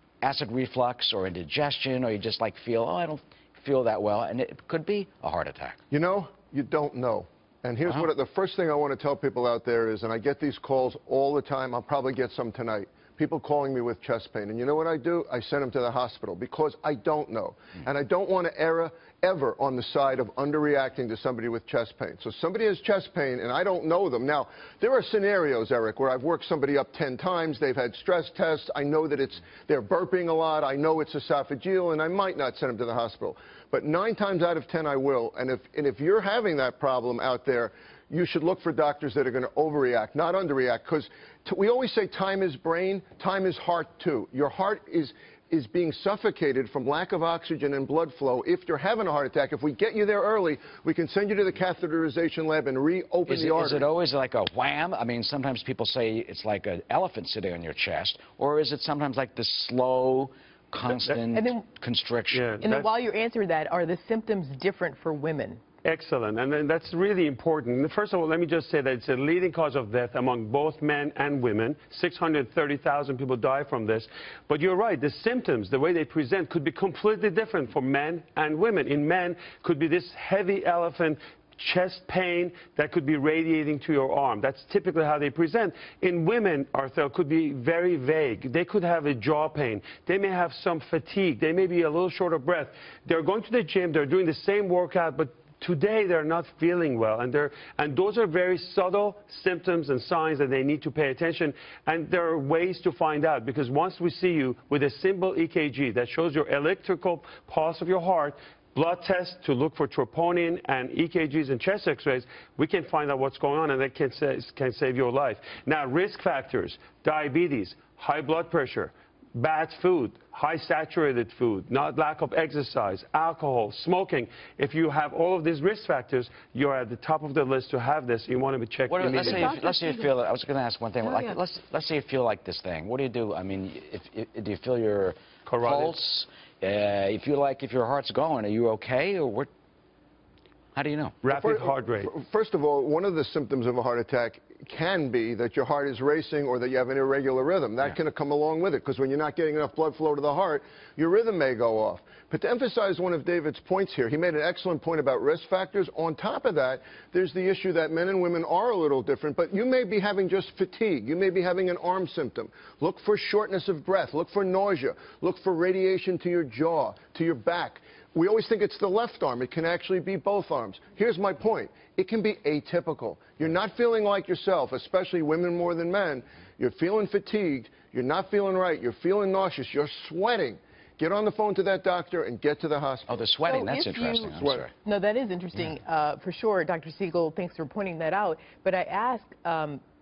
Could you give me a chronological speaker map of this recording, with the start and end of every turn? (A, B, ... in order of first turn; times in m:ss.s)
0:00.2-0:05.8 A
0:05.9-0:53.9 B
0:53.3-1:02.6 A
1:01.3-1:01.6 C
1:02.3-1:02.9 D
1:02.6-1:05.6 C
1:05.8-2:09.5 D
2:08.9-2:19.5 A
2:09.1-2:10.1 C
2:11.0-2:11.4 C
2:15.4-2:16.0 D
2:20.7-2:21.2 A
2:21.2-2:22.1 D
2:21.3-3:03.2 B
3:03.1-3:04.7 A
3:03.4-3:09.8 C
3:04.4-3:04.6 B